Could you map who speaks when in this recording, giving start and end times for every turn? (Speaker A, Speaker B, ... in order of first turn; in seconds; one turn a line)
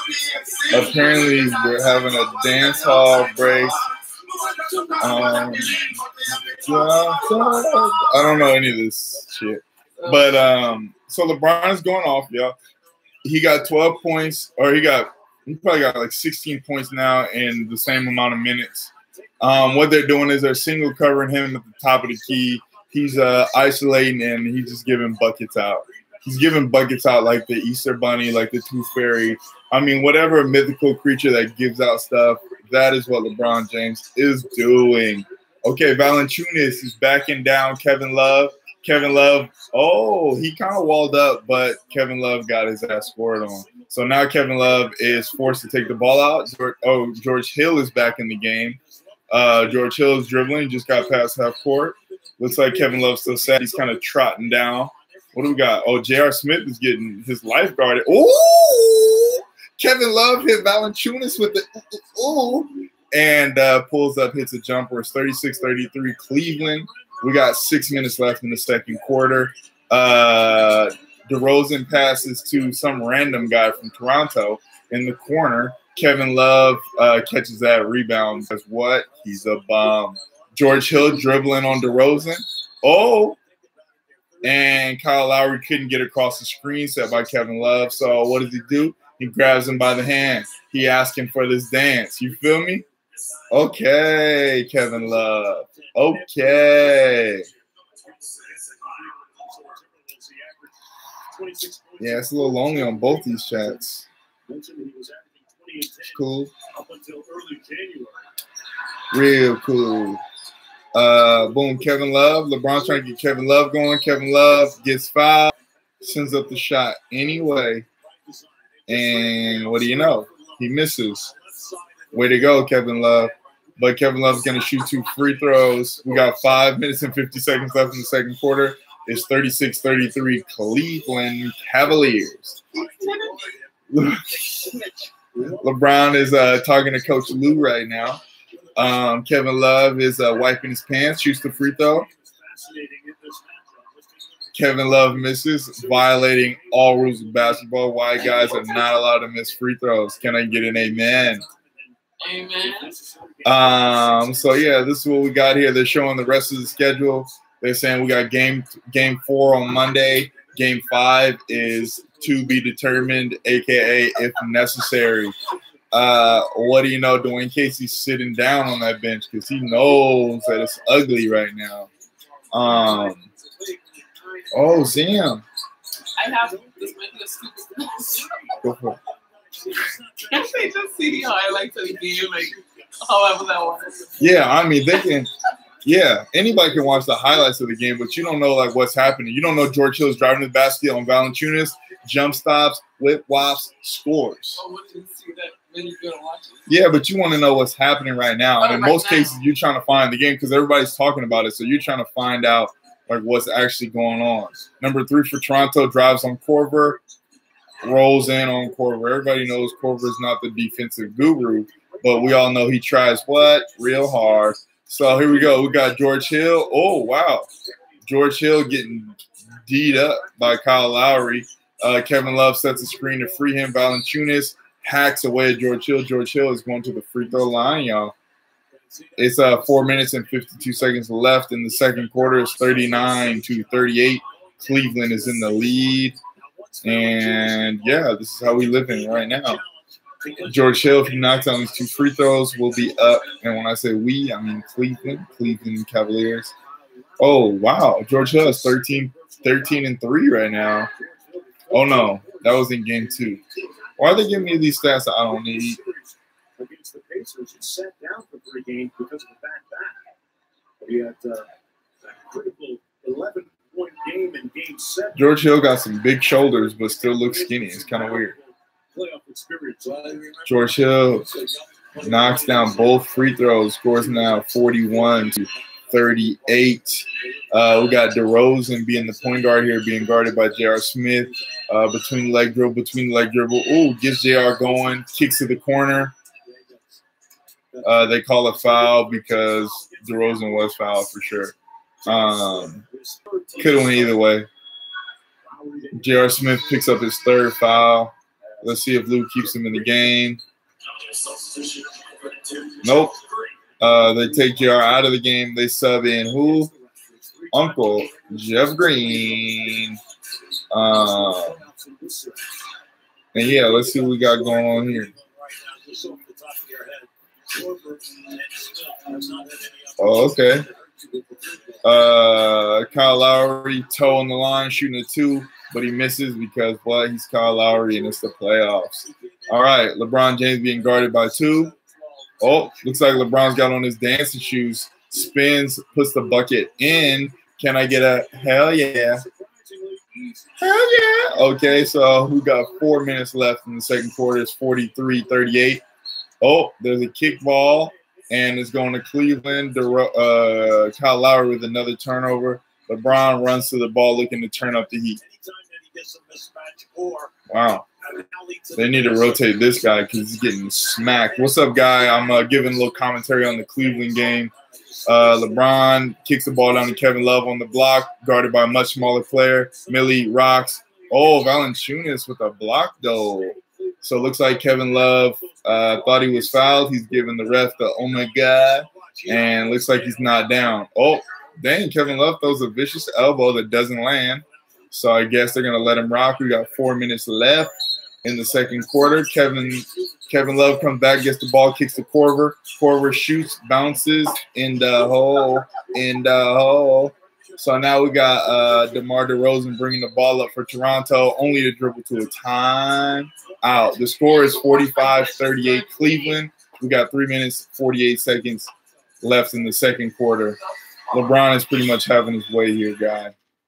Speaker A: 0.7-3.8
Speaker A: 5.0-6.0
Speaker A: 6.6-12.6
Speaker B: 10.0-10.3
Speaker C: 12.8-13.3
Speaker A: 13.2-48.8
Speaker C: 19.0-20.1
Speaker C: 21.4-23.9
Speaker C: 24.6-25.1
Speaker C: 25.8-27.1
Speaker C: 32.1-36.6
Speaker C: 38.5-39.9
Speaker C: 43.1-46.4
Speaker C: 48.7-50.0
Speaker A: 49.3-83.4
Speaker C: 51.1-55.7
Speaker C: 65.6-69.5
Speaker C: 72.2-74.2
Speaker C: 75.1-77.2
Speaker C: 79.0-82.3
Speaker C: 83.2-84.8
Speaker A: 84.4-92.9
Speaker C: 86.5-90.8
Speaker C: 92.2-94.1
Speaker A: 93.5-97.5
Speaker C: 94.7-103.8
Speaker A: 102.0-104.1
Speaker C: 104.5-108.3
Speaker A: 106.0-106.5
Speaker A: 109.1-110.2
Speaker A: 110.9-117.9
Speaker C: 115.7-116.7
Speaker C: 118.0-130.9
Speaker A: 118.9-121.3
Speaker A: 122.1-132.6
Speaker C: 131.6-132.0
Speaker C: 132.7-137.9
Speaker B: 132.9-133.3
Speaker A: 133.9-134.3
Speaker A: 135.5-138.2
Speaker C: 138.5-139.1
Speaker A: 138.8-142.1
Speaker C: 141.5-145.0
Speaker A: 144.5-151.5
Speaker C: 145.7-157.0
Speaker B: 152.2-152.9
Speaker A: 153.4-165.4
Speaker C: 160.3-162.8
Speaker C: 165.5-165.8
Speaker A: 165.9-171.9
Speaker C: 171.8-175.3
Speaker A: 172.5-173.3
Speaker A: 174.5-175.4
Speaker B: 176.2-178.4
Speaker C: 176.2-183.0
Speaker A: 178.6-179.0
Speaker B: 180.3-184.1
Speaker C: 183.9-184.6
Speaker A: 184.2-185.3
Speaker A: 185.8-194.6
Speaker B: 194.6-196.7
Speaker A: 196.7-207.0
Speaker B: 198.6-199.4
Speaker A: 207.8-217.5
Speaker C: 210.8-214.2
Speaker C: 215.0-216.6
Speaker A: 218.0-228.1
Speaker C: 219.9-221.0
Speaker C: 228.7-230.9
Speaker A: 229.2-236.2
Speaker C: 231.7-243.5
Speaker A: 236.8-239.6
Speaker A: 240.4-246.5
Speaker C: 244.6-245.7
Speaker C: 246.4-249.9
Speaker A: 247.2-250.9
Speaker C: 250.8-260.0
Speaker A: 251.7-253.4
Speaker A: 254.0-255.8
Speaker C: 260.8-265.3
Speaker A: 265.1-268.4
Speaker C: 266.6-273.4
Speaker A: 270.4-271.3
Speaker A: 272.0-286.1
Speaker C: 274.9-278.2
Speaker C: 279.0-280.5
Speaker C: 281.2-281.6
Speaker C: 286.4-287.0
Speaker C: 287.7-291.4
Speaker A: 287.8-291.5
Speaker A: 292.1-292.9
Speaker C: 292.1-294.2
Speaker A: 293.6-294.5
Speaker C: 295.4-297.0
Speaker A: 295.9-300.4
Speaker C: 298.5-298.8
Speaker C: 299.5-300.0
Speaker C: 301.1-304.8
Speaker A: 302.8-303.2
Speaker A: 303.8-306.7
Speaker C: 306.2-310.0
Speaker A: 307.5-310.0
Speaker A: 310.7-311.6
Speaker C: 310.9-312.6
Speaker A: 313.3-315.1
Speaker C: 313.4-322.0
Speaker A: 320.0-320.7
Speaker A: 321.8-331.7
Speaker C: 329.0-329.7
Speaker C: 330.9-332.9
Speaker A: 332.4-339.3
Speaker C: 335.0-335.2
Speaker C: 337.1-337.5
Speaker C: 338.3-341.8
Speaker A: 340.6-345.8
Speaker A: 346.4-355.2
Speaker C: 347.7-348.3
Speaker C: 355.2-357.4
Speaker A: 357.5-357.9
Speaker C: 358.0-359.9
Speaker A: 358.7-364.5
Speaker C: 361.0-362.9
Speaker C: 363.7-365.8
Speaker A: 365.1-408.7
Speaker C: 366.8-367.1
Speaker C: 369.8-372.0
Speaker C: 373.1-380.8
Speaker C: 387.7-390.5
Speaker C: 397.1-398.9
Speaker C: 403.5-403.8
Speaker B: 404.2-406.4
Speaker A: 409.2-410.6
Speaker A: 411.1-413.3